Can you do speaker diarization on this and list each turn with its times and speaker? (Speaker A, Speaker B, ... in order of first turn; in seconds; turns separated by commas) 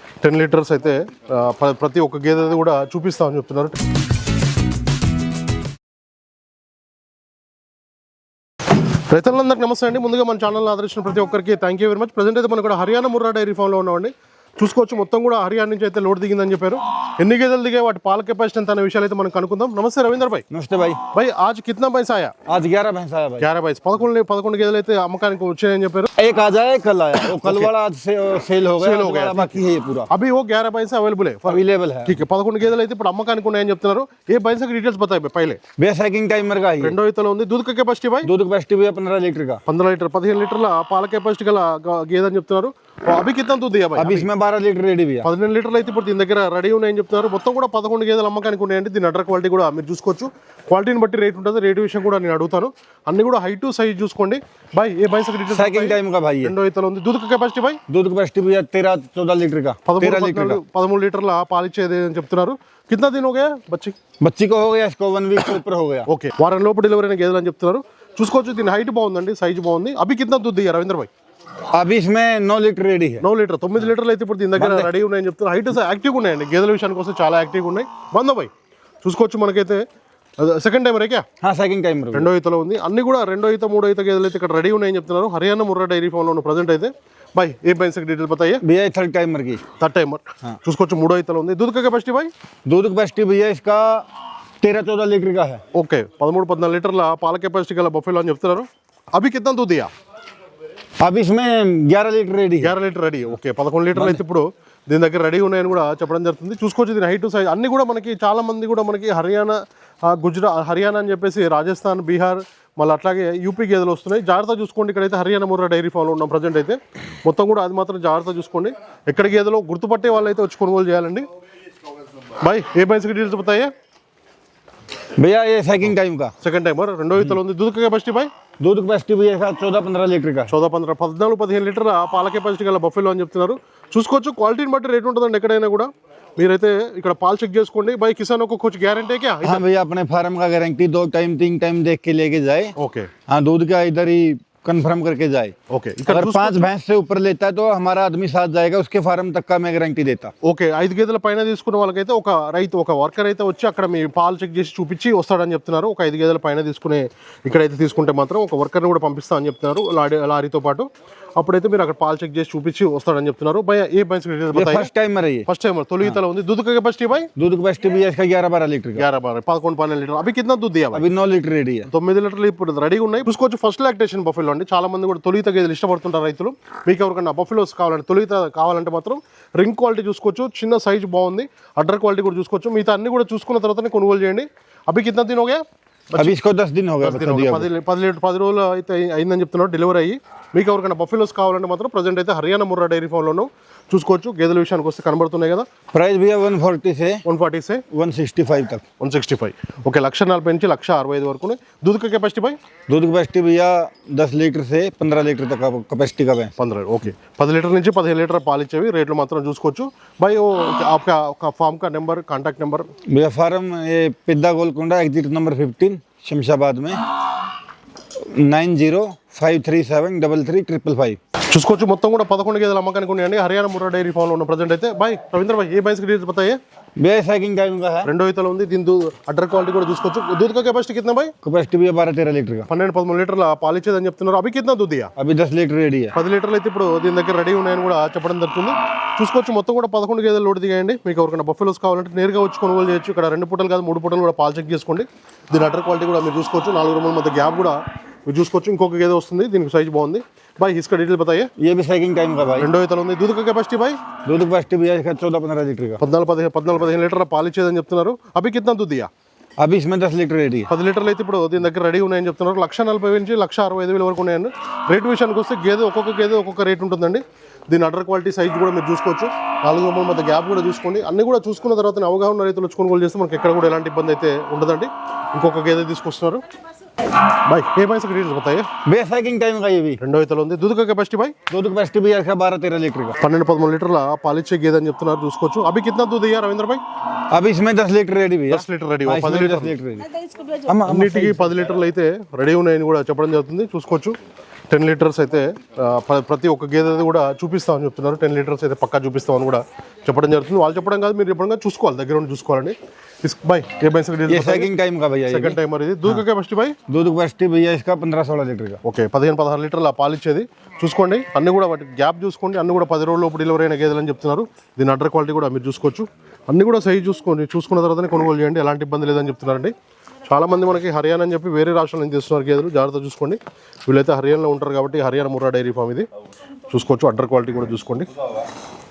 Speaker A: 0.2-3.8, Speaker A: 9.1-20.4, Speaker B: 20.5-21.0, Speaker A: 21.1-22.3, Speaker B: 22.5-23.5, Speaker A: 23.4-26.1, Speaker B: 26.1-30.1, Speaker A: 27.3-27.7, Speaker A: 28.8-35.6, Speaker B: 31.4-32.2, Speaker B: 35.8-37.0, Speaker A: 36.8-38.3, Speaker B: 38.2-39.6, Speaker A: 39.6-44.3, Speaker B: 44.0-45.3, Speaker A: 45.2-57.8, Speaker B: 55.5-56.5, Speaker B: 57.9-60.6, Speaker A: 59.9-64.0, Speaker B: 64.2-66.1, Speaker A: 66.1-71.1, Speaker B: 71.7-73.2, Speaker A: 73.2-78.5, Speaker B: 74.5-74.9, Speaker A: 79.0-79.8, Speaker A: 80.4-81.2, Speaker B: 81.4-82.3, Speaker A: 82.1-88.6, Speaker B: 88.6-89.6, Speaker A: 89.8-92.3, Speaker B: 92.7-94.1, Speaker B: 94.6-95.6, Speaker A: 95.7-99.9, Speaker B: 101.0-102.7, Speaker A: 102.6-121.2, Speaker B: 103.9-104.2, Speaker A: 122.4-123.7, Speaker B: 125.2-126.3, Speaker A: 126.4-128.3, Speaker B: 128.6-130.5, Speaker A: 130.5-139.6, Speaker B: 139.4-142.7, Speaker A: 142.8-143.1, Speaker B: 143.3-145.5, Speaker A: 145.7-146.7, Speaker B: 146.1-150.3, Speaker A: 150.4-164.9, Speaker B: 164.5-165.4, Speaker A: 165.5-167.3, Speaker B: 167.4-169.1, Speaker A: 169.0-171.0, Speaker B: 170.9-171.9, Speaker A: 171.9-186.3, Speaker B: 186.2-187.7, Speaker A: 187.0-195.7, Speaker B: 195.9-197.2, Speaker A: 197.2-197.8, Speaker B: 197.9-198.8, Speaker A: 199.0-202.6, Speaker B: 202.9-206.5, Speaker A: 206.6-212.9, Speaker B: 213.1-217.0, Speaker B: 218.2-221.2, Speaker A: 221.5-226.6, Speaker B: 227.0-228.1, Speaker A: 228.0-231.3, Speaker B: 231.4-232.7, Speaker A: 232.7-235.1, Speaker B: 235.2-236.1, Speaker A: 236.1-251.5, Speaker B: 251.6-252.7, Speaker A: 252.6-254.0, Speaker B: 254.2-256.0, Speaker A: 256.0-259.1, Speaker B: 259.6-260.7, Speaker A: 260.7-276.4, Speaker A: 277.4-278.7, Speaker B: 278.8-280.0, Speaker A: 280.0-281.3, Speaker B: 281.5-283.2, Speaker A: 283.2-286.8, Speaker B: 287.3-291.6, Speaker A: 288.5-289.8, Speaker A: 290.9-294.2, Speaker A: 294.7-304.7, Speaker B: 304.3-306.2, Speaker A: 305.3-306.8, Speaker B: 306.9-308.8, Speaker A: 308.8-319.7, Speaker A: 320.2-326.1, Speaker A: 326.7-328.1